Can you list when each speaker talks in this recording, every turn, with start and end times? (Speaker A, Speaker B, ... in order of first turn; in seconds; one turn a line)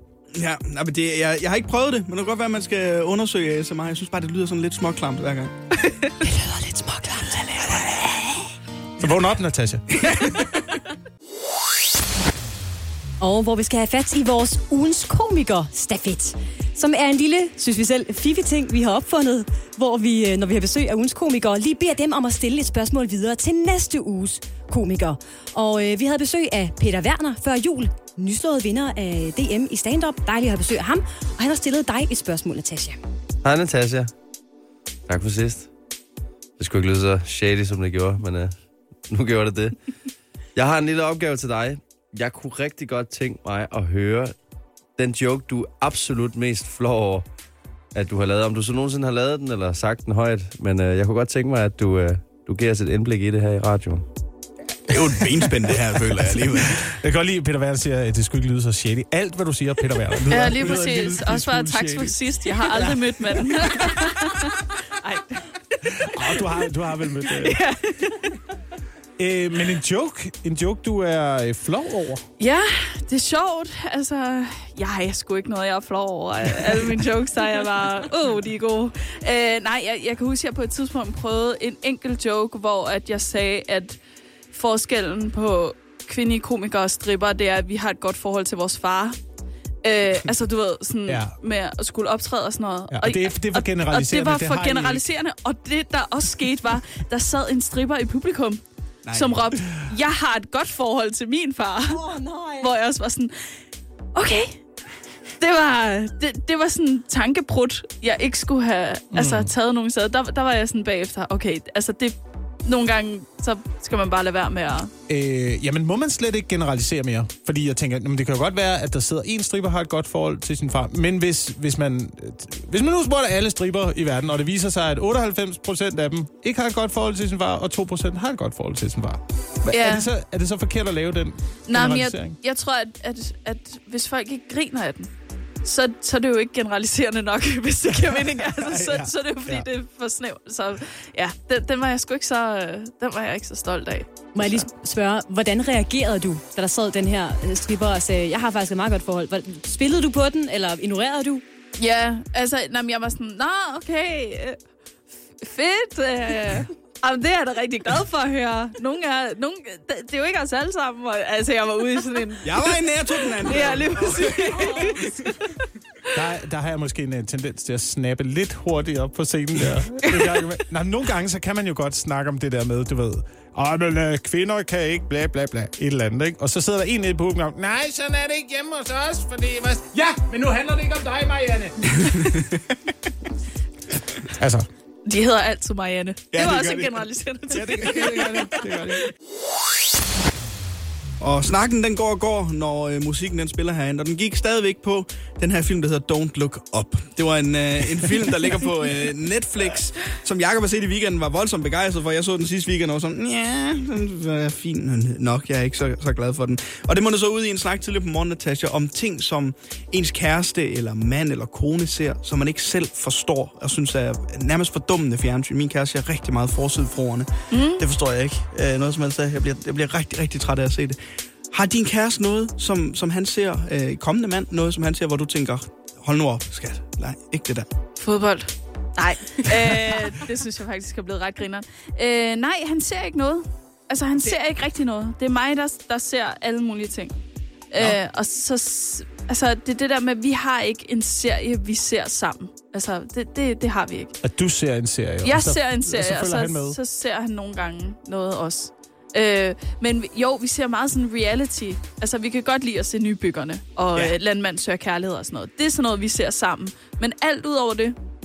Speaker A: 0.3-5.5
Speaker B: 6.2-8.3
Speaker C: 9.0-10.0
Speaker A: 10.0-10.4
Speaker B: 13.2-33.0
Speaker D: 33.4-34.1
Speaker D: 35.1-35.7
Speaker D: 36.6-39.9
Speaker D: 40.5-44.4
Speaker D: 45.0-47.2
Speaker D: 47.9-54.0
Speaker A: 54.9-56.9
Speaker C: 54.9-63.9
Speaker E: 60.3-66.4
Speaker C: 65.8-67.6
Speaker E: 67.3-68.4
Speaker C: 69.2-72.2
Speaker E: 72.4-84.0
Speaker E: 84.5-89.2
Speaker E: 89.8-102.0
Speaker C: 91.1-91.3
Speaker C: 92.9-95.0
Speaker A: 99.0-99.4
Speaker B: 101.9-102.7
Speaker E: 102.6-103.3
Speaker E: 104.1-104.6
Speaker E: 105.4-114.9
Speaker C: 109.1-109.5
Speaker C: 115.1-132.3
Speaker E: 129.7-130.1
Speaker E: 131.7-135.1
Speaker E: 135.6-144.7
Speaker C: 138.3-139.7
Speaker B: 144.3-151.4
Speaker E: 151.8-154.6
Speaker E: 155.4-165.3
Speaker A: 162.4-165.3
Speaker C: 166.1-182.0
Speaker A: 181.9-182.6
Speaker C: 184.3-184.7
Speaker E: 185.1-188.9
Speaker A: 186.3-188.2
Speaker C: 187.5-189.1
Speaker A: 191.2-221.0
Speaker E: 217.5-217.8
Speaker A: 221.5-227.7
Speaker E: 228.0-237.1
Speaker E: 237.7-244.2
Speaker C: 244.2-246.8
Speaker E: 245.2-257.9